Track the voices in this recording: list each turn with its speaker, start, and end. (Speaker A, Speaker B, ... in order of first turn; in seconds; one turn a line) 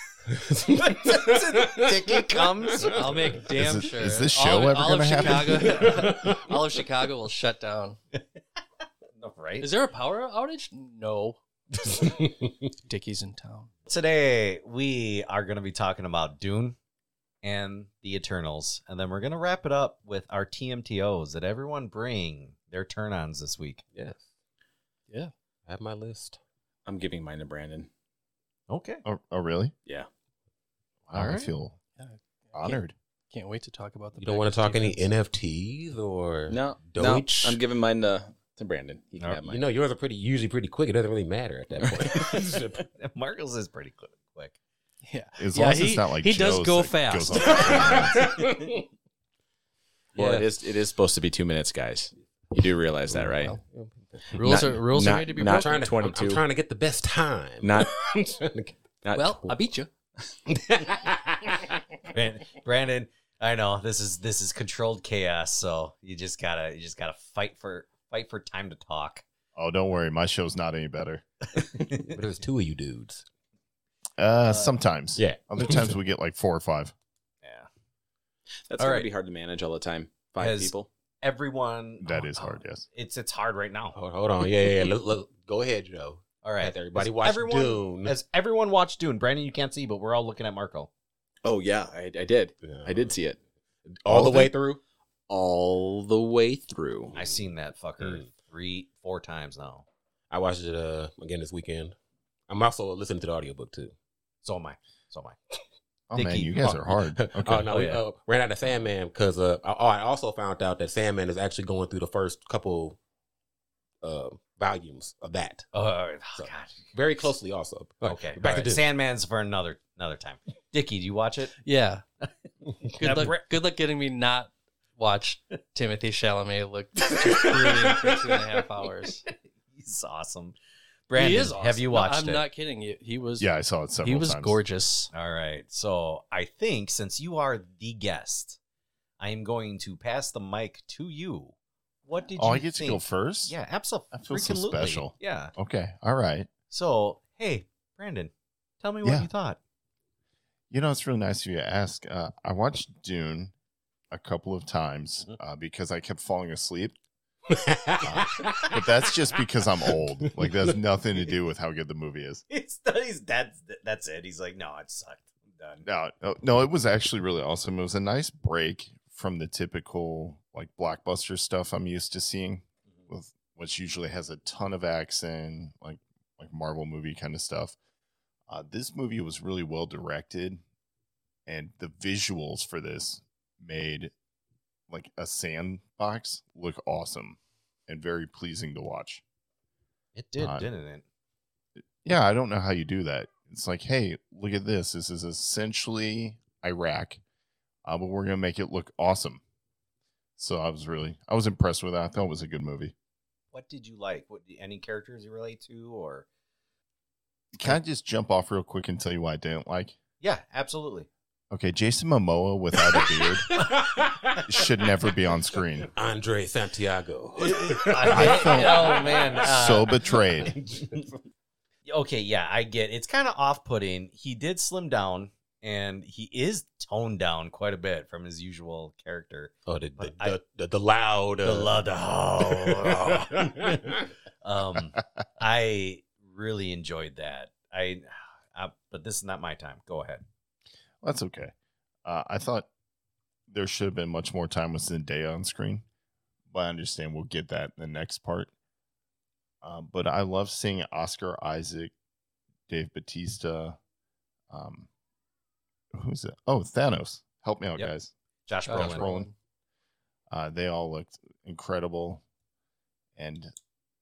Speaker A: 0.3-2.9
Speaker B: 0.8-3.4
Speaker C: 2.9-8.0
Speaker D: 3.6-5.8
Speaker B: 5.4-6.0
Speaker A: 5.8-6.4
Speaker B: 9.2-9.7
Speaker C: 9.6-11.4
Speaker C: 12.8-13.7
Speaker B: 13.9-16.8
Speaker B: 17.4-23.8
Speaker A: 23.9-24.2
Speaker A: 25.7-26.4
Speaker E: 26.9-27.9
Speaker B: 28.7-29.0
Speaker D: 29.0-29.7
Speaker B: 31.1-31.5
Speaker D: 31.1-31.8
Speaker C: 32.0-32.8
Speaker D: 32.5-32.9
Speaker C: 33.3-35.1
Speaker A: 34.2-37.6
Speaker E: 36.5-39.6
Speaker A: 39.4-42.8
Speaker B: 43.0-44.6
Speaker C: 45.0-48.1
Speaker D: 45.4-48.4
Speaker A: 47.4-48.8
Speaker A: 50.1-50.5
Speaker E: 50.1-53.6
Speaker A: 53.1-54.3
Speaker E: 54.3-56.4
Speaker C: 54.3-55.8
Speaker A: 55.4-58.8
Speaker E: 57.6-57.9
Speaker E: 59.0-59.6
Speaker C: 59.1-59.9
Speaker A: 60.5-61.8
Speaker B: 62.0-69.2
Speaker D: 69.5-71.2
Speaker B: 71.6-72.2
Speaker A: 72.0-73.2
Speaker D: 74.2-76.9
Speaker B: 74.4-74.7
Speaker A: 75.2-75.9
Speaker B: 77.4-77.7
Speaker E: 78.7-80.9
Speaker B: 78.8-79.1
Speaker B: 80.4-84.0
Speaker D: 82.0-82.9
Speaker A: 83.9-88.1
Speaker B: 86.4-90.9
Speaker E: 91.4-93.4
Speaker A: 92.6-93.1
Speaker A: 93.9-94.8
Speaker E: 94.1-94.5
Speaker E: 95.3-97.1
Speaker B: 97.1-99.9
Speaker A: 98.0-98.3
Speaker A: 100.3-102.0
Speaker A: 102.5-103.9
Speaker B: 104.4-105.4
Speaker D: 106.1-107.7
Speaker B: 106.1-106.5
Speaker A: 106.6-113.0
Speaker B: 107.7-108.0
Speaker A: 114.0-115.7
Speaker B: 115.7-116.8
Speaker A: 116.4-118.8
Speaker B: 118.0-121.5
Speaker C: 121.6-122.0
Speaker C: 122.9-129.2
Speaker B: 123.0-123.4
Speaker B: 129.7-130.6
Speaker B: 131.1-132.4
Speaker C: 131.1-133.5
Speaker D: 133.4-134.6
Speaker C: 134.0-135.1
Speaker B: 135.1-138.6
Speaker B: 139.2-141.6
Speaker B: 142.1-145.5
Speaker D: 142.4-143.6
Speaker D: 144.1-146.5
Speaker B: 146.7-149.6
Speaker D: 149.0-149.3
Speaker D: 150.7-153.5
Speaker D: 154.1-156.9
Speaker A: 157.5-158.9
Speaker D: 158.0-162.4
Speaker A: 159.9-160.7
Speaker B: 162.5-165.9
Speaker D: 165.8-177.8
Speaker D: 178.5-180.6
Speaker D: 181.5-184.1
Speaker D: 184.9-189.2
Speaker B: 190.1-191.0
Speaker D: 190.4-190.7
Speaker D: 191.8-197.2
Speaker D: 197.8-199.4
Speaker D: 200.4-202.9
Speaker B: 203.5-206.3
Speaker D: 207.5-210.0
Speaker B: 210.2-211.1
Speaker D: 211.5-213.6
Speaker A: 212.9-214.7
Speaker D: 214.4-215.9
Speaker A: 215.9-219.5
Speaker B: 217.4-220.2
Speaker D: 218.0-220.5
Speaker A: 220.4-220.9
Speaker B: 220.8-221.1
Speaker B: 221.9-230.4
Speaker A: 229.7-231.8
Speaker B: 231.4-240.2
Speaker A: 232.4-234.1
Speaker D: 241.0-241.5
Speaker D: 242.0-242.7
Speaker D: 243.5-245.8
Speaker D: 246.5-248.5
Speaker D: 249.6-251.9
Speaker D: 252.7-253.8
Speaker D: 254.5-254.9
Speaker D: 255.9-258.1
Speaker B: 258.5-259.1
Speaker C: 258.6-259.3
Speaker D: 258.7-259.3
Speaker D: 260.3-262.2
Speaker D: 263.1-263.5